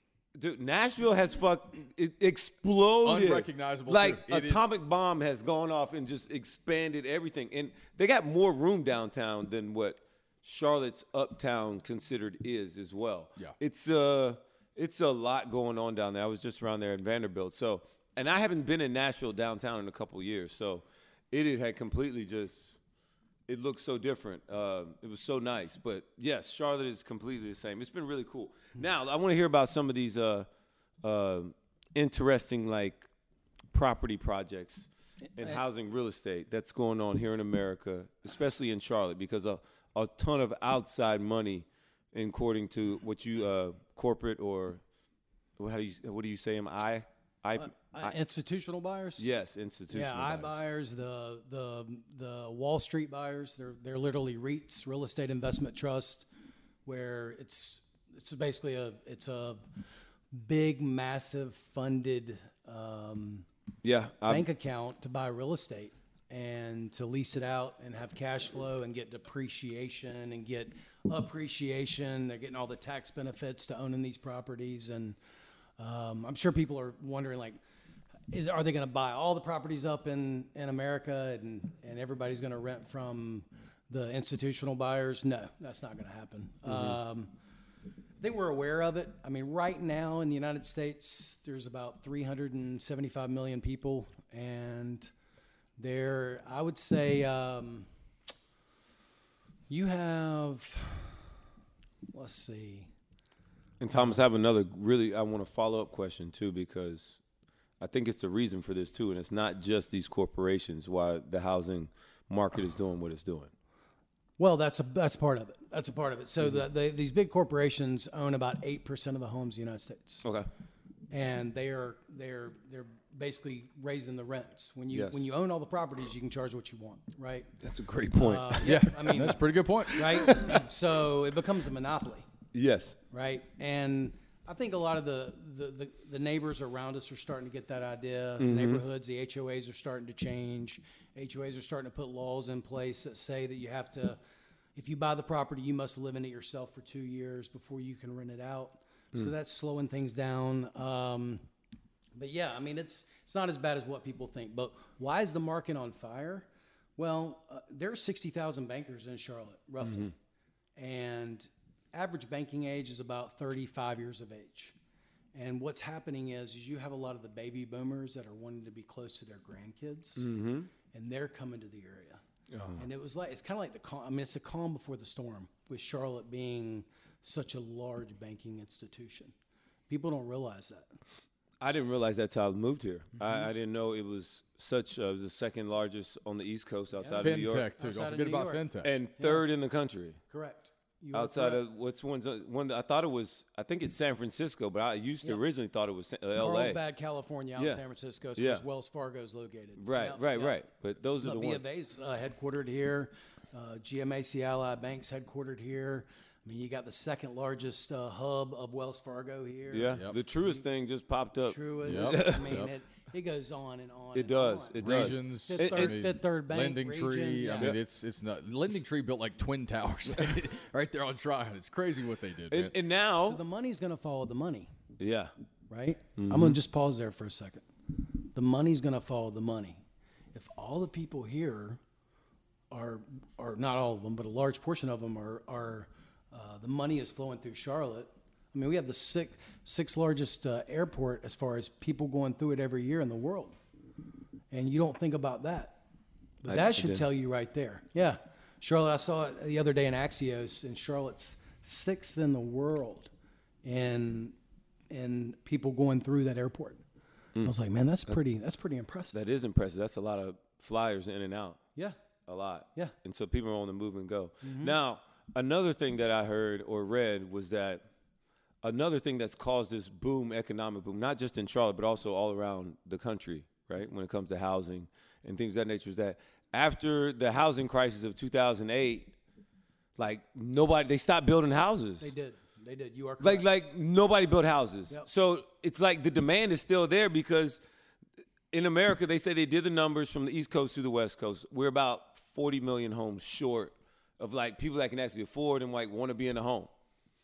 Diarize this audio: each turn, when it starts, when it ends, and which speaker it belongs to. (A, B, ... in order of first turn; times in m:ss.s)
0:00.3-0:22.8 A
0:03.0-0:04.6 B
0:23.5-0:30.5 A
0:31.0-0:33.1 A
0:33.7-0:44.8 A
0:45.6-0:48.1 A
0:47.6-0:49.3 C
0:49.2-0:50.6 A
0:49.9-0:56.3 C
0:56.8-0:59.6 C
1:00.3-1:03.4 C
1:03.8-1:04.4 A
1:04.2-1:15.2 C
1:15.8-1:17.6 C
1:18.3-1:27.3 C
1:26.7-1:27.0 A
1:28.2-1:35.1 C
1:35.8-1:37.9 C
1:39.7-1:41.2 C
1:42.1-1:42.9 C
1:43.8-1:47.2 A
1:43.9-1:44.2 C
1:47.8-1:53.5 A
1:54.4-2:00.2 C
2:01.1-2:07.5 C
2:04.9-2:05.2 A
2:07.6-2:08.7 A
2:08.1-2:12.2 C
2:08.6-2:10.2 B
2:09.9-2:10.6 A
2:12.5-2:13.0 A
2:13.1-2:24.2 C
2:18.4-2:18.8 A
2:24.7-2:31.4 C
2:32.2-2:40.1 C
2:40.8-2:44.7 C
2:45.3-2:50.3 C
2:50.2-2:50.7 A
2:50.9-2:52.2 C
2:52.5-2:52.8 A
2:52.8-2:59.3 C
2:59.9-3:00.8 C
3:01.6-3:07.7 A
3:07.0-3:08.6 C
3:07.2-3:08.9 B
3:08.8-3:10.2 A
3:09.2-3:09.5 C
3:10.3-3:11.6 C
3:11.1-3:16.8 A
3:16.4-3:20.6 C
3:18.4-3:18.6 A
3:19.8-3:21.6 A
3:21.2-3:30.5 C
3:29.7-3:32.6 A
3:31.4-3:37.8 C
3:31.8-3:32.7 B
3:34.1-3:36.0 A
3:34.8-3:42.7 B
3:42.5-3:43.4 A
3:43.2-3:44.7 C
3:45.0-3:45.3 A
3:45.7-3:47.7 C
3:46.2-3:46.6 A
3:48.3-3:49.8 C
3:50.3-3:51.8 C
3:52.7-4:03.5 C
4:04.5-4:05.8 C
4:06.4-4:13.1 C
4:06.5-4:07.0 A
4:13.6-4:14.3 C
4:14.9-4:16.8 C
4:17.4-4:19.2 C
4:19.1-4:21.6 A
4:22.3-4:27.8 A
4:24.4-4:24.7 C
4:28.6-4:39.1 A
4:40.0-4:42.1 A
4:42.0-4:43.4 C
4:43.2-4:47.6 A
4:48.5-4:56.7 A